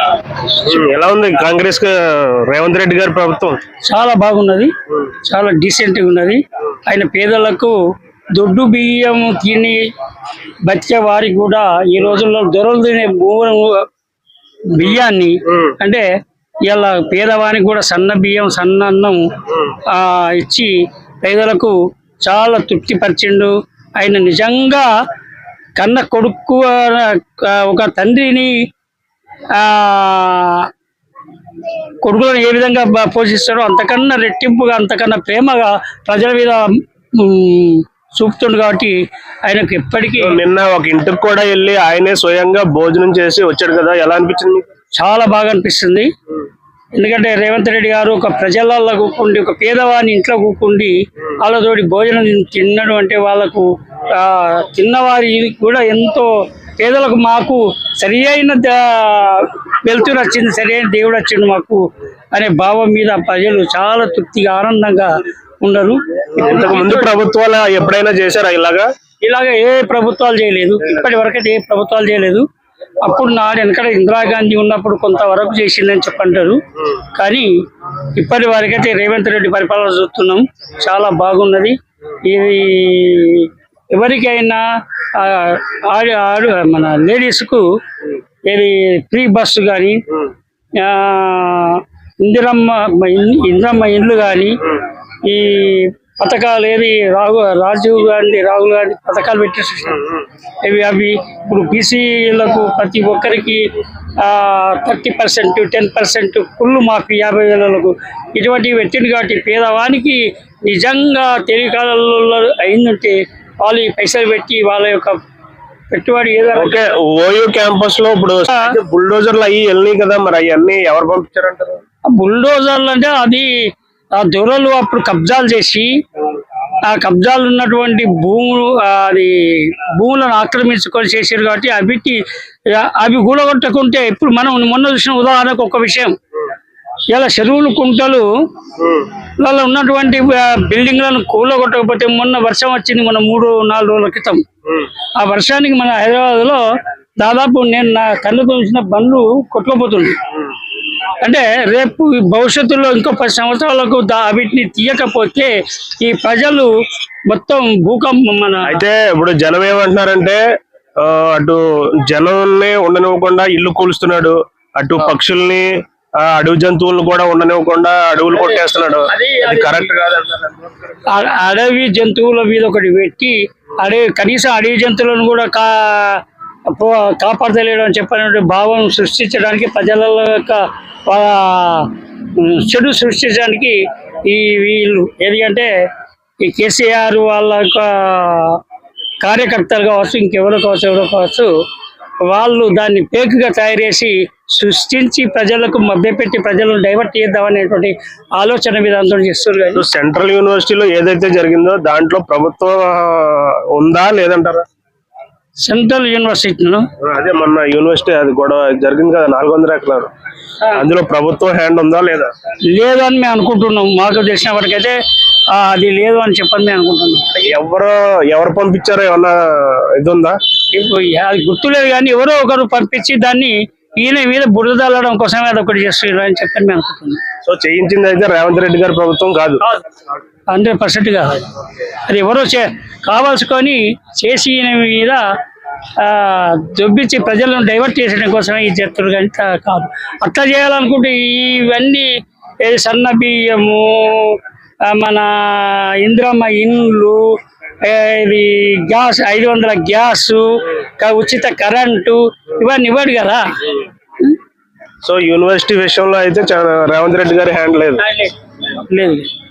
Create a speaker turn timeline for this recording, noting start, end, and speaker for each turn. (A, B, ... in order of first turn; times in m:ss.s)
0:00.4-0:03.6 A
0:03.8-0:07.8 B
0:08.3-0:09.8 B
0:10.6-0:13.8 B
0:14.7-0:16.0 B
0:15.5-0:15.7 A
0:16.7-0:19.2 B
0:19.8-0:24.9 B
0:25.8-0:28.5 B
0:29.5-0:30.7 B
0:32.0-0:40.4 B
0:40.2-0:44.6 A
0:45.0-0:46.1 B
0:47.0-1:07.2 B
1:06.4-1:08.9 A
1:09.2-1:12.4 B
1:13.0-1:16.6 B
1:17.1-1:17.5 B
1:18.1-1:27.6 B
1:28.5-1:30.0 B
1:30.7-1:55.2 B
1:55.9-1:56.8 B
1:56.5-2:01.8 A
2:02.1-2:03.5 B
2:04.1-2:05.9 B
2:06.8-2:16.2 B
2:17.1-2:18.3 B
2:18.8-2:19.1 A
2:19.4-2:24.4 B
2:25.2-2:26.6 B
2:27.2-2:30.2 B
2:31.2-2:36.7 B
2:37.3-2:38.8 B
2:38.6-2:40.4 A
2:41.0-2:45.7 A
2:46.2-2:50.6 A
2:49.1-2:49.8 B
2:51.1-3:05.7 B
3:06.4-3:08.6 B
3:09.2-3:11.5 B
3:12.2-3:19.8 B
3:19.7-3:24.6 A
3:25.6-3:26.9 B
3:27.0-3:30.1 A
3:30.7-3:32.3 A
3:32.7-3:37.3 B
3:37.4-3:40.4 A
3:40.7-3:47.2 B
3:47.4-3:49.6 A
3:50.5-3:55.2 B
3:56.0-4:13.4 B
4:15.0-4:18.0 A
4:18.0-4:19.3 B